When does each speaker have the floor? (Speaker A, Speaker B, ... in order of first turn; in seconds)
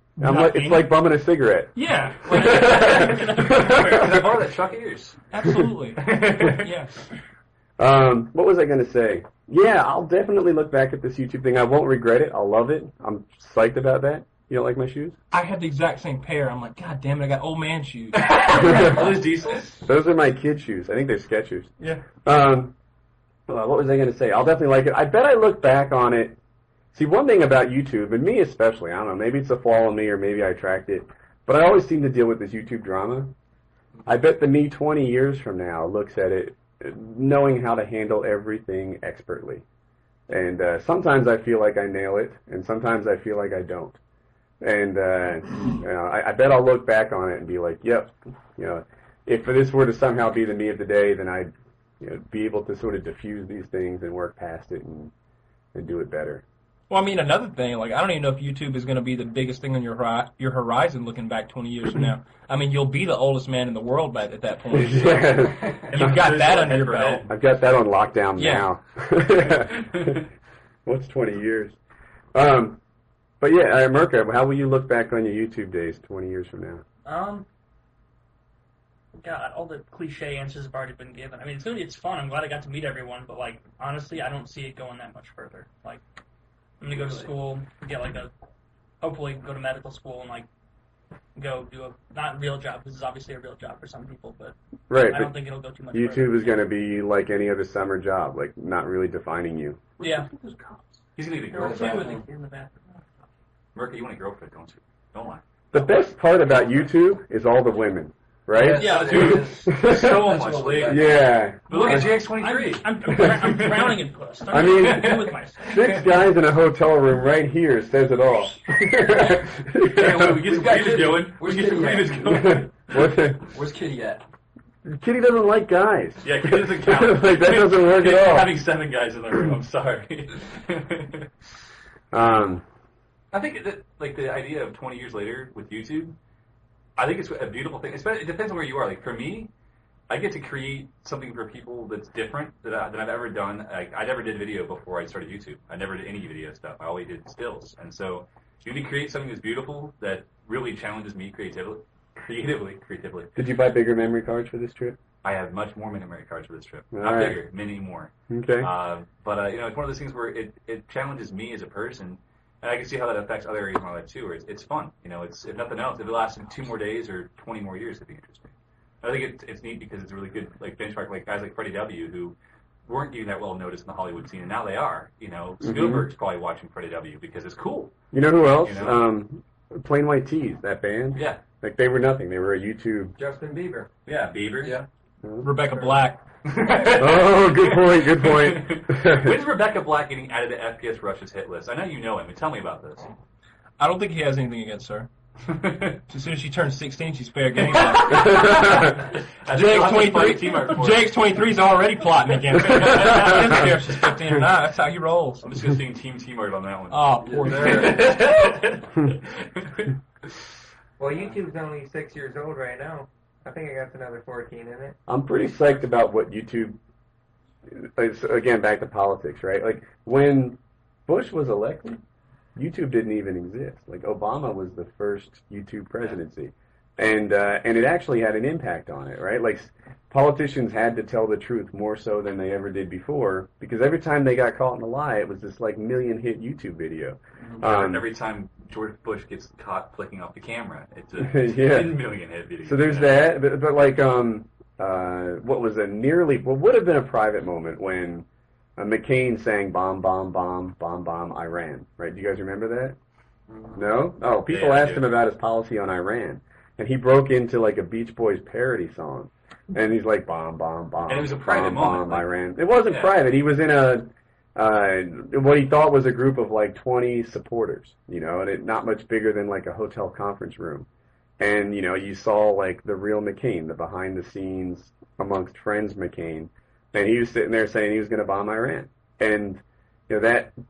Speaker A: 0.2-0.9, 1.8-2.2, 5.3-6.0, 15.3-19.2, 56.9-67.3, 68.4-68.7, 185.4-186.2, 193.8-195.1, 196.1-199.0, 199.5-205.5, 206.9-208.6
Speaker B: 0.2-4.3, 7.8-15.2, 18.6-19.1, 19.8-21.7, 22.2-22.7, 23.5-26.4, 26.9-33.3, 34.0-39.6, 40.3-44.0, 44.6-55.1, 55.7-56.4, 64.7-66.2, 67.3-70.2, 70.8-71.8, 72.3-72.8, 73.4-76.8, 94.9-95.3, 95.9-99.8, 105.7-110.3, 110.8-112.2, 113.0-113.7, 114.5-120.3, 122.2-123.4, 124.8-128.6, 132.1-132.6, 153.3-155.0, 156.9-157.4, 158.3-158.7, 175.6-176.1, 178.1-183.1, 185.2-185.5, 186.8-189.4, 215.1-216.8, 217.7-222.0, 222.6-238.1, 241.2-242.1, 242.6-248.2, 248.8-253.0, 253.7-270.9, 271.4-280.5
Speaker C: 2.2-4.1, 77.0-77.5, 79.2-86.0, 86.8-88.3, 89.0-90.5, 91.3-96.6, 100.0-100.3, 101.5-103.0, 108.8-109.4, 111.7-116.2
Speaker D: 2.3-5.2, 6.0-6.8, 18.1-19.8, 65.8-67.3, 100.0-102.2, 103.7-105.8, 108.9-113.9, 114.7-115.3, 119.9-122.6, 126.2-131.3, 133.3-136.2, 136.9-139.5, 140.1-153.3, 155.2-177.9, 178.6-179.0, 181.1-181.4, 184.1-184.8, 186.4-193.1, 195.4-196.0, 197.7-201.2, 205.4-209.9, 237.4-243.3, 254.5-255.0, 261.1-262.3, 262.9-263.1
Speaker E: 101.5-102.2, 108.5-111.3, 120.0-124.2, 207.2-208.0, 253.5-253.8
Speaker F: 183.2-183.9, 211.0-215.0